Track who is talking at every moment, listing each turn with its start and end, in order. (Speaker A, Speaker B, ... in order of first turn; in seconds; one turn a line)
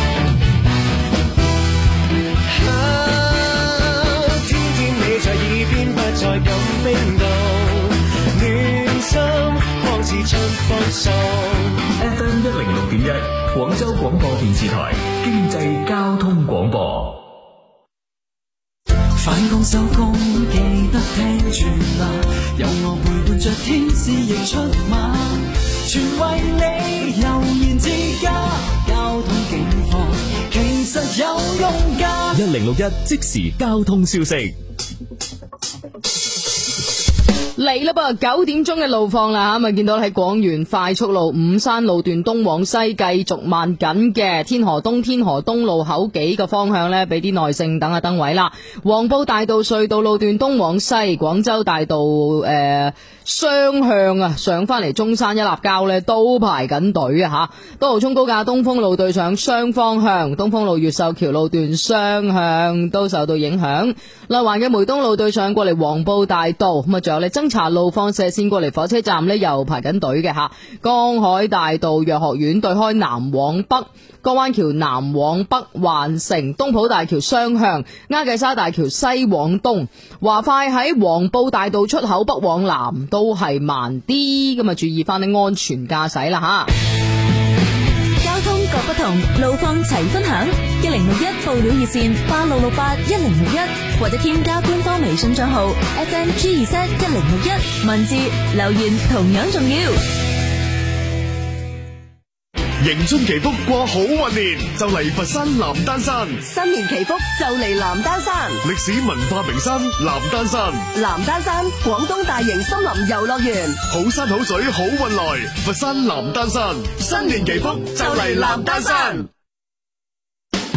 Speaker A: 2.5-11.8
Speaker B: 12.4-13.0
Speaker B: 14.2-15.5
Speaker C: 19.1-32.4
Speaker D: 32.4-34.5
Speaker E: 37.6-86.7
Speaker F: 88.2-100.0
Speaker G: 102.8-106.4
Speaker H: 106.5-108.6
Speaker G: 108.6-110.9
Speaker H: 110.9-113.8
Speaker G: 113.9-119.2
Speaker H: 117.0-119.2